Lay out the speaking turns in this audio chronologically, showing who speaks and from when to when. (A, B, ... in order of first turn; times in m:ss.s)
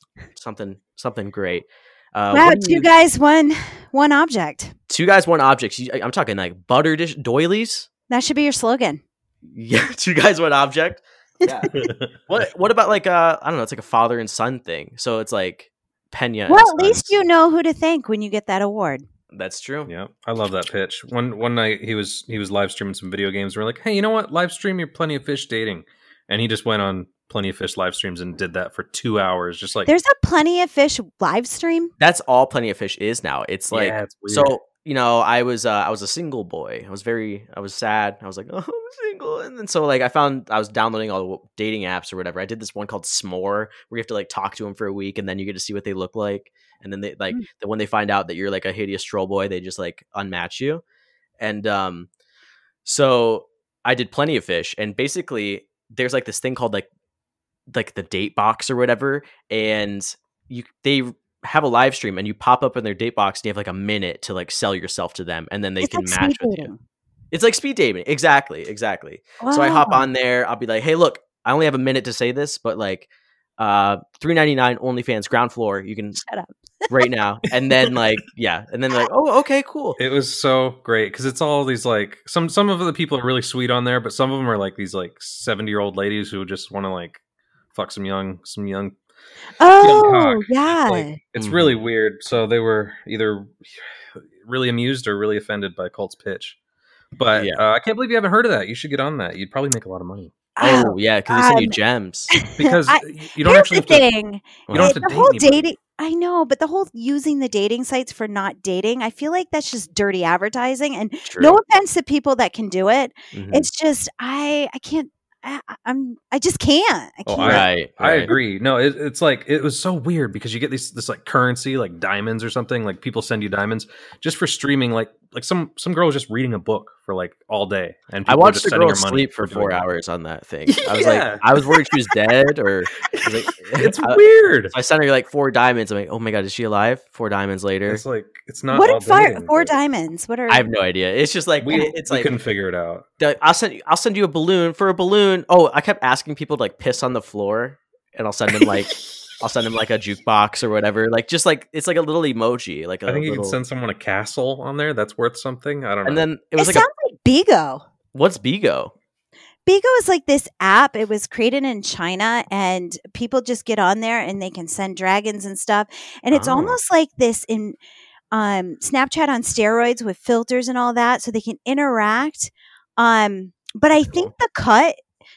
0:00.3-0:02.9 A
0:02.3-0:04.8 B
0:04.9-0:07.9 A
0:08.1-0:09.0 B
0:09.5-0:11.7 A
0:11.4-0:11.9 B
0:11.7-0:12.1 C
0:12.3-0:17.2 A
0:16.5-0:19.0 B
0:19.3-0:19.9 A
0:19.9-0:29.9 C
0:29.9-0:31.9 B
0:32.0-0:50.8 A
0:33.7-0:34.6 C
0:51.4-0:52.1 A
0:52.8-0:56.9 A
0:57.7-1:06.7 A
1:05.8-1:06.8 B
1:07.3-1:13.1 A
1:09.4-1:10.1 B
1:13.6-1:16.2 A
1:16.2-1:16.9 B
1:16.9-1:20.0 A
1:20.0-1:27.2 C
1:27.7-1:29.0 C
1:29.6-1:31.2 B
1:29.8-1:36.6 C
1:31.4-1:31.8 A
1:37.2-1:40.4 C
1:37.4-1:37.6 A
1:40.6-1:41.8 B
1:40.6-1:42.3 A
1:42.3-1:57.7 B
1:42.5-1:44.1 C
1:44.7-1:45.7 C
1:44.7-1:45.0 A
1:51.2-1:51.6 A
1:53.3-1:53.7 A
1:57.3-2:09.9 C
1:57.4-1:58.3 A
2:08.3-2:18.0 A
2:10.8-2:11.4 C
2:13.1-2:14.7 C
2:17.9-2:19.7 C
2:18.7-2:20.7 B
2:20.5-2:22.3 A
2:21.6-2:23.1 C
2:23.2-2:33.6 A
2:33.1-2:36.3 C
2:36.0-2:36.9 A
2:36.6-2:37.8 B
2:38.1-2:38.9 A
2:39.7-2:47.8 B
2:46.3-2:46.8 A
2:48.3-2:55.0 B
2:54.1-2:54.3 A